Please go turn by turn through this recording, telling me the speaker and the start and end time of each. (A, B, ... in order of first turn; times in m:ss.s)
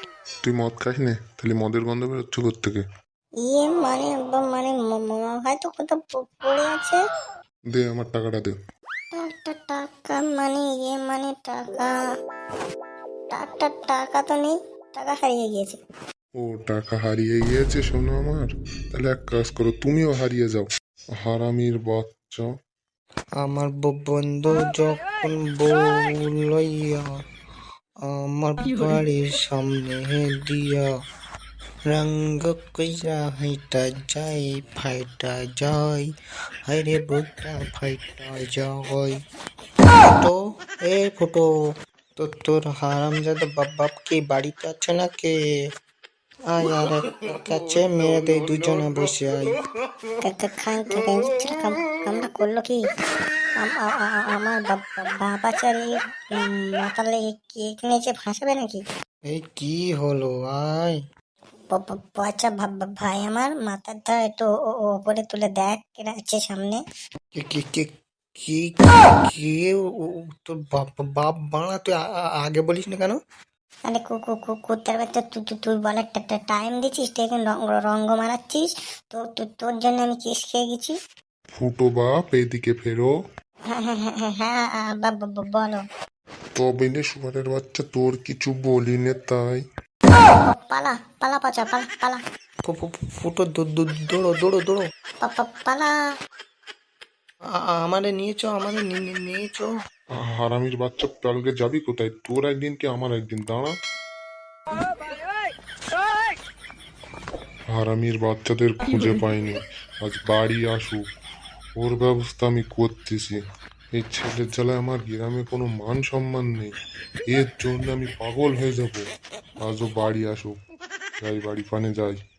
0:00.4-0:02.8 A
0:03.4-0:07.0 B
0:07.7-0:08.5 A
0:09.2-0:11.9 B
0:13.3-0:15.8 B
0:16.4-0:20.7 A
0:21.2-0:22.5 A
0:23.4-0:27.1 C
0:28.0-0:30.9 C
0:31.9-0:36.1 C
0:36.7-0:39.2 C
0:40.0-0:41.5 C
0:42.2-0:45.4 C
0:46.5-0:49.6 C
0:50.2-0:52.8 B
0:53.6-0:58.8 B
0:59.3-1:01.0 C
1:01.7-1:06.8 B
1:07.4-1:13.2 C
1:13.9-1:21.0 B
1:21.6-1:23.1 A
1:23.7-1:25.8 B
1:26.6-1:29.6 A
1:30.3-1:32.2 B
1:32.7-1:34.8 C
1:35.2-1:35.9 B
1:37.6-1:39.7 C
1:40.3-1:43.7 A
1:47.7-1:51.0 A
1:51.8-1:53.4 A
1:53.9-1:56.7 A
1:57.3-1:59.0 A
1:59.6-2:00.6 A
2:01.2-2:02.2 A